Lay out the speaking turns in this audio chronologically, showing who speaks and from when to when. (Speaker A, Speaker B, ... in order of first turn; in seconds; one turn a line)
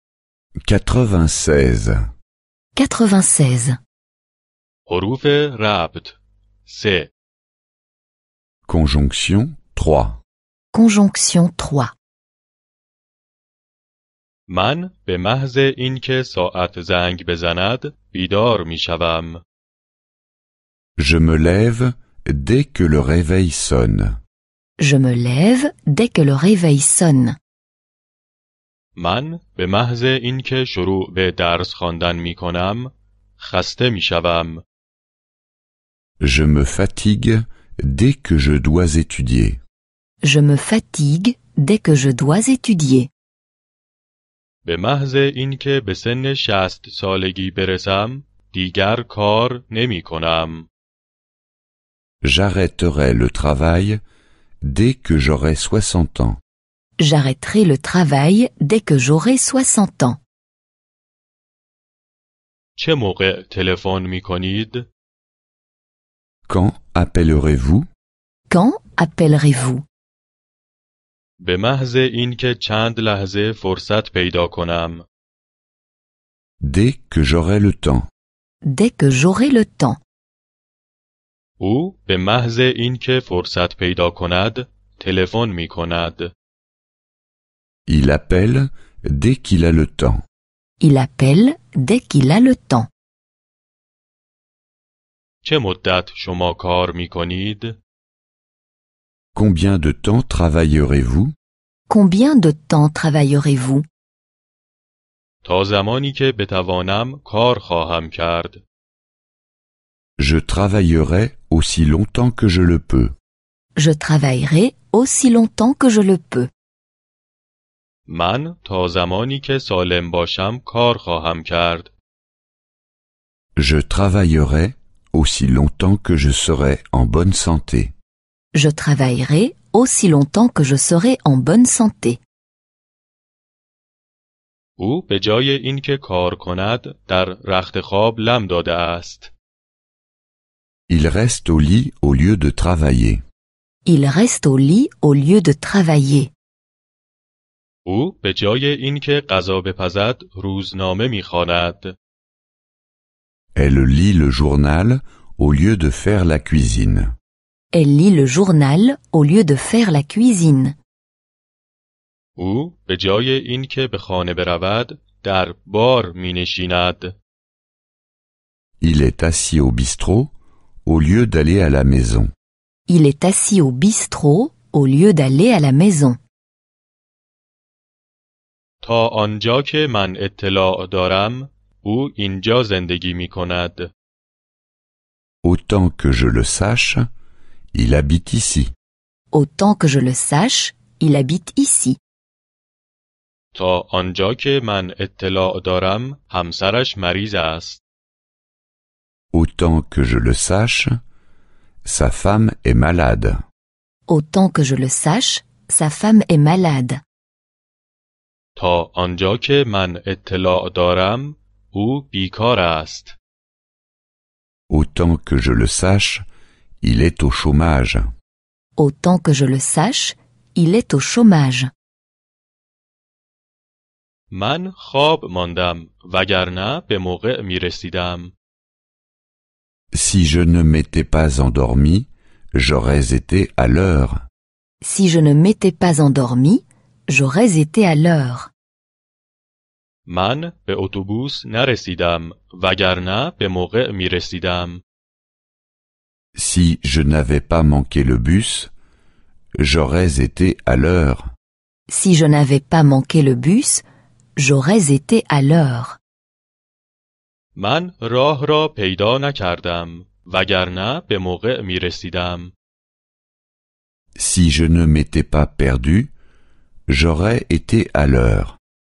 Speaker A: 0.7-2.1
Speaker B: 2.7-3.8
Speaker C: 4.9-7.1
Speaker A: 8.7-10.2
Speaker B: 10.7-11.9
Speaker C: 14.5-19.4
Speaker A: 21.0-24.2
Speaker B: 24.8-27.4
Speaker C: 28.9-34.6
Speaker A: 36.2-39.6
Speaker B: 40.2-43.1
Speaker C: 44.6-50.7
Speaker A: 52.2-54.0
Speaker A: 54.6-56.4
Speaker B: 57.0-60.2
Speaker C: 62.8-64.9
Speaker A: 66.5-67.9
Speaker B: 68.5-69.8
Speaker C: 71.4-75.0
Speaker A: 76.6-78.1
Speaker B: 78.6-80.0
Speaker C: 81.6-86.3
Speaker A: 87.9-90.2
Speaker B: 90.8-92.9
Speaker C: 95.4-97.8
Speaker A: 99.3-101.3
Speaker B: 101.9-103.8
Speaker C: 105.4-108.6
Speaker A: 110.2-113.1
Speaker B: 113.8-116.5
Speaker C: 118.1-121.9
Speaker A: 123.6-127.9
Speaker B: 128.5-132.2
Speaker C: 134.8-139.3
Speaker A: 140.9-143.2
Speaker B: 143.8-146.3
Speaker C: 147.8-151.9
Speaker A: 153.5-157.1
Speaker B: 157.7-160.8
Speaker C: 162.4-167.2
Speaker A: 168.8-170.3
Speaker A: 170.8-172.3
Speaker B: 172.9-176.2
Speaker C: 178.8-183.9
Speaker A: 185.4-187.1
Speaker A: 187.7-188.7
Speaker B: 189.3-192.0
Speaker C: 193.5-197.8
Speaker A: 199.3-201.0
Speaker A: 201.8-203.4
Speaker B: 204.1-207.0
Speaker C: 208.6-213.2
Speaker A: 214.7-216.2
Speaker A: 216.8-218.1
Speaker B: 218.8-221.7
Speaker C: 224.3-228.3
Speaker A: 229.9-234.2
Speaker B: 234.8-238.5
Speaker C: 240.1-244.8
Speaker A: 246.3-248.7
Speaker A: 249.6-251.3
Speaker B: 251.9-253.8
Speaker B: 254.3-256.0
Speaker C: 257.6-262.5
Speaker A: 264.2-266.1
Speaker A: 266.9-268.6